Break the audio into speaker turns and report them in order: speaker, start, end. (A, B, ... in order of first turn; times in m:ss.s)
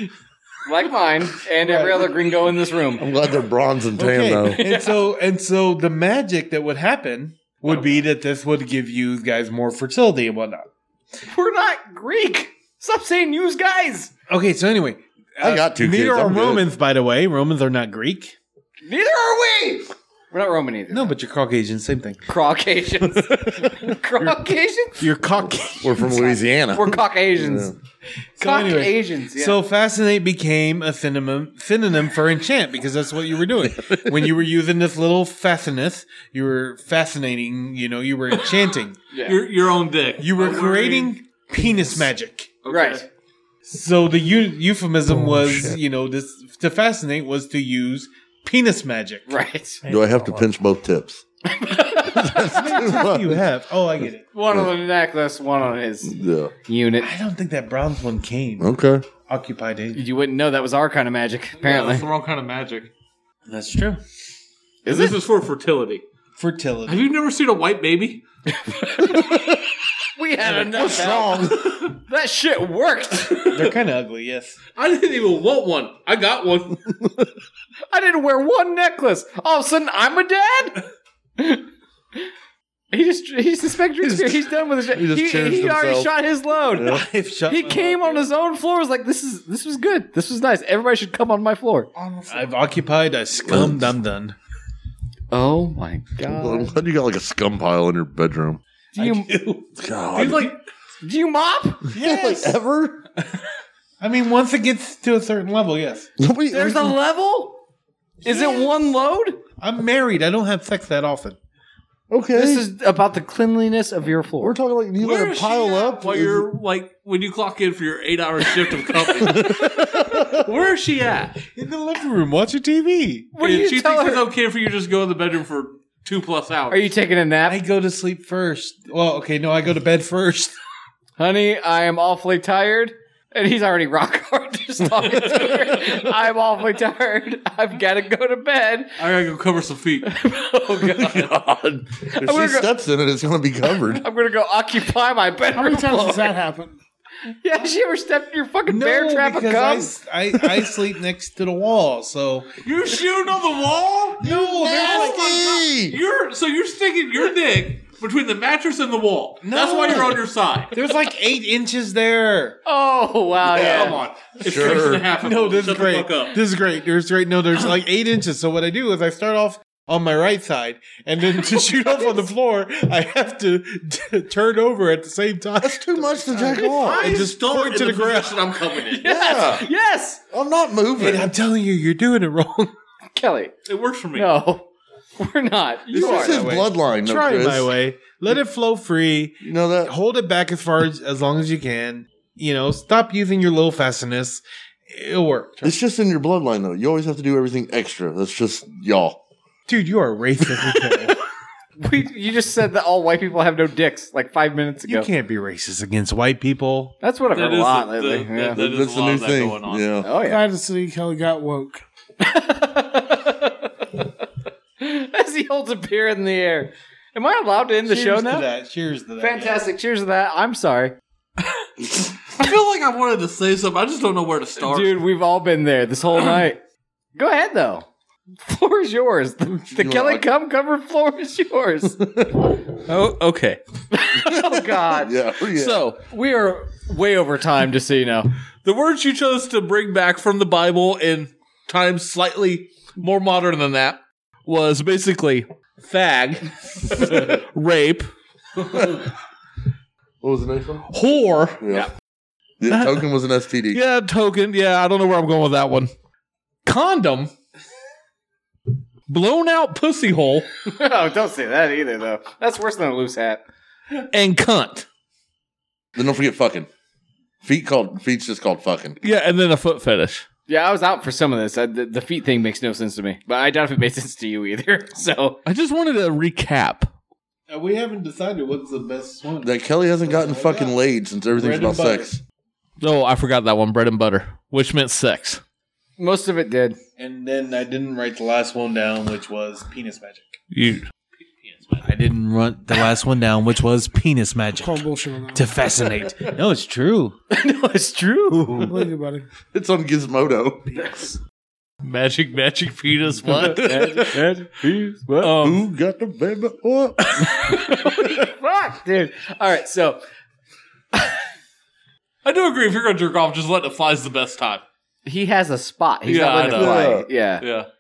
0:00.6-0:03.1 A
0:01.6-0:02.2 B
0:03.0-0:04.6 C
0:04.0-0:10.7 B
0:04.5-0:05.1 A
0:11.3-0:14.1 A
0:14.3-0:18.4 B
0:15.4-0:16.7 C
0:18.9-0:21.1 A
0:20.9-0:22.2 B
0:22.3-0:25.0 A
0:25.0-0:26.3 B
0:25.8-0:27.8 C
0:26.0-0:27.7 A
0:28.4-0:39.0 B
0:28.4-0:29.6 A
0:33.9-0:34.3 C
0:39.1-0:39.4 A
0:39.3-0:41.2 D
0:40.2-0:42.6 B
0:42.6-0:43.1 D
0:42.7-0:43.0 A
0:43.7-0:49.3 B
0:45.1-0:45.8 C
0:49.3-0:49.8 A
0:49.8-0:50.4 E
0:49.9-0:51.2 C
0:51.5-0:53.0 A
0:52.0-0:53.4 C
0:52.4-0:54.2 B
0:54.3-0:57.1 A
0:56.0-0:56.5 C
0:57.0-1:00.0 B
0:58.6-0:59.0 C
0:59.9-1:02.0 A
1:01.6-1:02.9 D
1:03.5-1:04.0 B
1:04.9-1:05.2 A
1:04.9-1:06.0 D
1:06.4-1:07.1 B
1:06.9-1:08.2 D
1:08.6-1:09.3 A
1:10.2-1:13.5 A
1:10.4-1:11.8 C
1:13.5-1:14.6 B
1:14.8-1:16.9 D
1:17.9-1:20.8 A
1:21.4-1:21.6 A
1:22.9-1:31.9 A
1:24.0-1:26.1 C
1:26.8-1:27.0 C
1:26.9-1:28.3 B
1:32.0-1:32.6 E
1:32.3-1:34.4 B
1:33.5-1:33.9 C
1:35.3-1:36.8 A
1:36.3-1:38.6 C
1:39.0-1:39.3 A
1:39.0-1:39.6 D
1:39.8-1:40.5 C
1:40.1-1:40.6 D
1:41.0-1:41.9 A
1:41.9-1:42.6 B
1:41.9-1:43.0 C
1:44.0-1:46.1 B
1:46.2-1:47.0 C
1:46.5-1:47.6 A
1:48.2-1:48.8 B
1:48.2-1:49.4 A
1:49.6-1:51.4 B
1:52.1-1:52.6 C
1:52.3-1:54.6 A
1:54.4-1:56.5 C
1:55.0-2:01.4 D
1:59.2-2:00.4 C
2:01.5-2:03.4 B
2:03.4-2:04.3 A
2:03.4-2:06.9 D
2:06.7-2:07.6 A
2:07.5-2:10.5 B
2:11.2-2:19.0 A
2:19.0-2:20.1 D
2:20.0-2:21.4 A
2:20.8-2:24.0 C
2:22.1-2:22.7 A
2:24.0-2:26.4 A
2:25.6-2:26.8 E
2:27.3-2:29.9 A
2:28.7-2:32.6 B
2:32.6-2:40.7 D
2:34.2-2:35.6 B
2:34.2-2:36.0 C
2:39.4-2:40.2 B
2:40.7-2:42.6 B
2:42.6-2:44.0 A
2:43.4-2:45.0 C
2:43.5-2:46.4 D
2:45.2-2:58.5 B
2:51.5-2:52.2 A
2:55.6-2:57.2 C
2:56.6-2:59.1 D
2:58.9-3:00.2 A
2:59.0-2:59.7 C
3:00.3-3:01.3 C
3:01.0-3:02.7 B
3:03.2-3:03.5 A
3:03.7-3:04.3 D
3:04.1-3:04.7 A
3:05.2-3:06.6 A
3:05.9-3:15.7 B
3:05.9-3:07.7 C
3:09.4-3:09.9 C
3:15.6-3:19.2 C
3:19.7-3:21.2 B
3:21.8-3:25.1 A
3:24.9-3:27.0 B
3:27.0-3:28.6 A
3:27.3-3:29.9 D
3:28.6-3:30.1 C
3:30.0-3:30.4 A
3:30.2-3:31.8 E
3:32.2-3:34.0 A
3:34.8-3:38.5 A
3:37.8-3:39.6 B
3:39.2-3:41.0 A
3:42.3-3:45.0 D
3:44.6-3:46.6 A
3:47.2-3:47.9 A
3:48.4-3:52.0 A
3:49.7-3:50.3 C
3:51.9-3:52.5 C
3:52.7-3:53.6 D
3:53.9-3:55.2 A
3:54.2-3:55.8 C
3:55.6-3:56.0 D
3:56.0-3:58.3 A
3:58.6-4:08.1 D
4:08.6-4:08.9 D
4:08.6-4:09.0 C
4:10.2-4:10.9 C
4:10.9-4:11.6 D
4:11.6-4:11.9 C
4:12.6-4:13.8 C
4:12.7-4:13.1 D
4:13.7-4:15.9 D
4:16.6-4:17.3 D
4:19.1-4:20.5 D
4:20.7-4:23.4 A
4:24.0-4:24.9 D
4:26.0-4:26.7 C
4:27.4-4:29.0 C
4:29.0-4:30.2 D
4:30.5-4:35.4 A
4:35.4-4:36.9 D
4:37.5-4:40.7 B
4:39.4-4:42.2 C
4:41.4-4:42.1 B
4:42.8-4:45.4 D
4:46.0-4:46.8 A
4:47.0-4:50.4 B
4:50.5-4:51.9 D
4:51.8-4:57.2 B
4:54.6-4:55.5 E
4:57.3-4:58.6 A
4:58.3-4:58.8 B
4:58.5-4:59.3 E
4:59.5-5:00.8 C
5:01.8-5:04.2 D
5:03.2-5:03.8 C
5:03.2-5:05.4 A
5:05.2-5:05.6 D
5:05.4-5:07.3 C
5:07.4-5:10.0 A
5:12.2-5:14.6 D
5:15.1-5:17.4 A
5:16.0-5:17.7 D
5:16.6-5:17.1 C